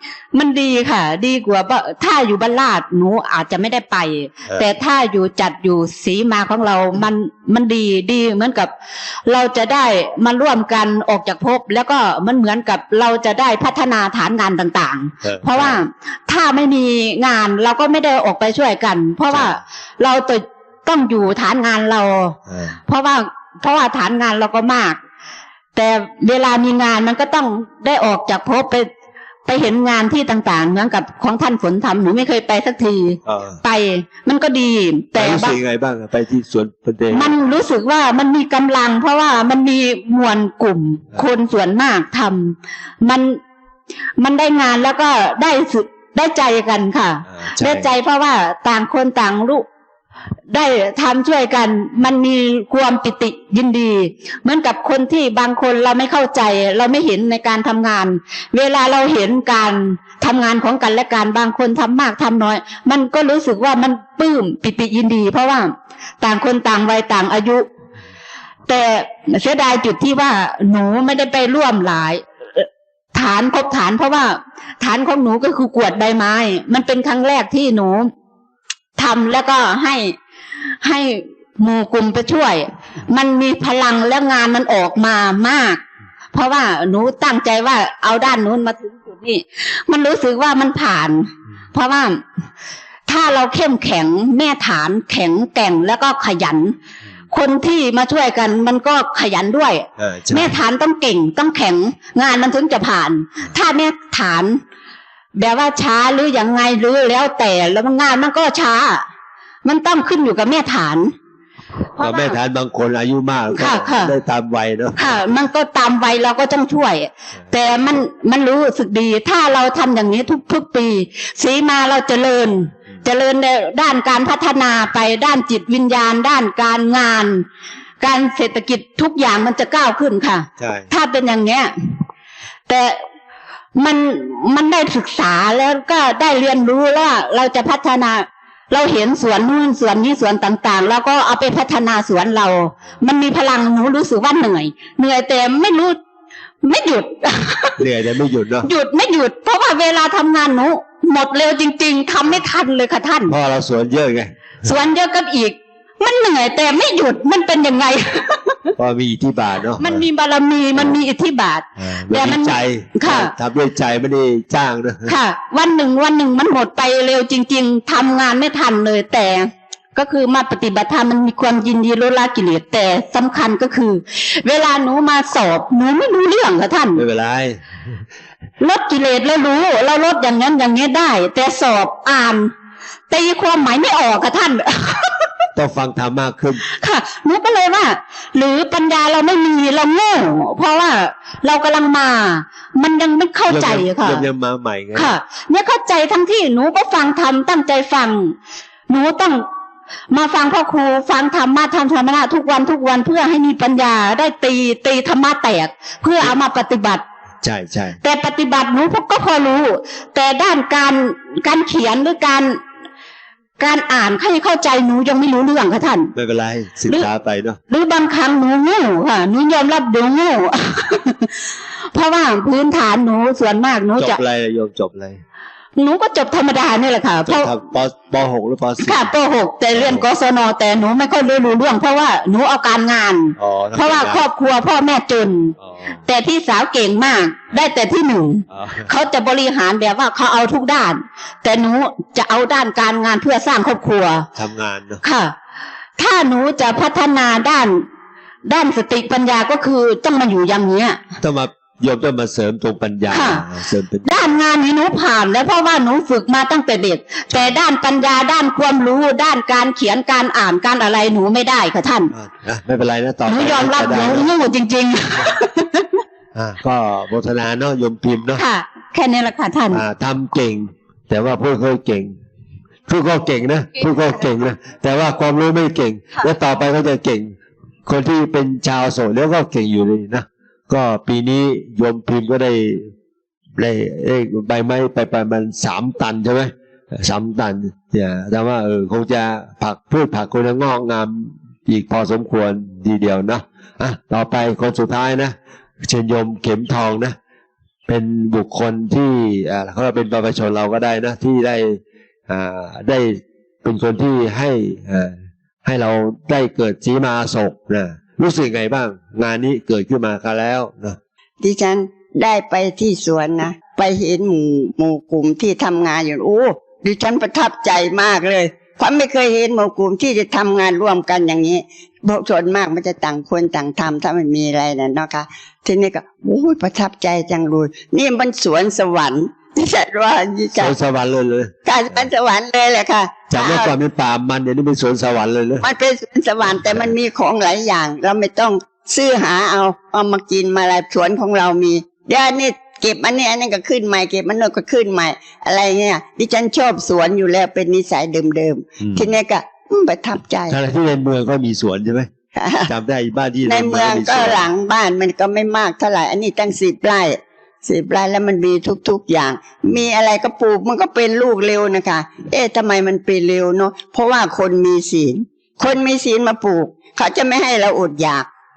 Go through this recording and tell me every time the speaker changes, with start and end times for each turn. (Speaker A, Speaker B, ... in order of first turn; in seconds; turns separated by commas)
Speaker A: 0.3-8.7, Speaker A: 9.2-25.0, Speaker B: 15.2-15.8, Speaker B: 19.3-19.6, Speaker B: 22.5-22.8, Speaker A: 25.7-28.9, Speaker A: 29.4-35.5, Speaker B: 33.2-33.6, Speaker B: 35.1-37.3, Speaker A: 37.1-43.4, Speaker A: 44.2-49.6, Speaker B: 47.4-47.9, Speaker A: 50.5-67.7, Speaker A: 68.7-78.1, Speaker A: 79.0-80.2, Speaker A: 80.8-92.2, Speaker A: 93.1-96.8, Speaker A: 97.3-104.6, Speaker B: 100.0-100.5, Speaker A: 105.4-109.0, Speaker A: 109.6-111.1, Speaker A: 112.0-112.3, Speaker B: 112.0-115.3, Speaker A: 113.5-114.1, Speaker A: 115.0-127.5, Speaker A: 128.0-131.7, Speaker B: 130.6-130.9, Speaker A: 132.7-133.0, Speaker A: 133.8-146.0, Speaker A: 146.6-147.8, Speaker B: 147.8-148.7, Speaker A: 148.6-153.3, Speaker B: 153.3-154.3, Speaker A: 154.6-158.7, Speaker B: 158.8-160.1, Speaker A: 159.8-163.3, Speaker B: 161.8-165.2, Speaker A: 165.1-177.0, Speaker B: 176.9-177.6, Speaker A: 178.6-182.5, Speaker A: 183.1-185.4, Speaker B: 185.5-186.6, Speaker A: 186.7-194.2, Speaker B: 193.5-195.1, Speaker A: 194.9-198.3, Speaker A: 198.9-199.4, Speaker A: 200.1-207.0, Speaker B: 207.4-208.0, Speaker A: 208.0-212.6, Speaker A: 213.6-216.1, Speaker B: 216.1-217.6, Speaker A: 217.7-221.3, Speaker A: 221.9-224.2, Speaker B: 224.0-225.2, Speaker A: 225.8-227.5, Speaker B: 227.2-229.1, Speaker A: 228.8-235.5, Speaker B: 229.7-230.0, Speaker B: 233.4-234.2, Speaker B: 235.6-236.0, Speaker A: 236.1-244.3, Speaker B: 238.5-238.9, Speaker B: 244.3-245.0, Speaker A: 245.0-245.3, Speaker A: 246.0-247.8, Speaker A: 248.4-251.0, Speaker B: 251.2-254.3, Speaker A: 253.1-253.4, Speaker A: 254.0-262.1, Speaker B: 257.3-257.6, Speaker B: 262.1-264.3, Speaker A: 263.2-266.0, Speaker B: 266.3-268.4, Speaker A: 268.3-269.8, Speaker B: 269.7-272.1, Speaker B: 272.9-277.3, Speaker B: 277.9-282.9, Speaker B: 283.6-297.2, Speaker B: 297.9-311.0, Speaker C: 311.4-330.7, Speaker B: 330.6-332.1, Speaker C: 331.6-333.7, Speaker B: 333.3-335.7, Speaker C: 335.6-350.6, Speaker B: 336.4-336.9, Speaker B: 348.8-349.1, Speaker B: 350.5-352.1, Speaker C: 352.4-352.7, Speaker B: 352.6-354.5, Speaker C: 353.4-368.3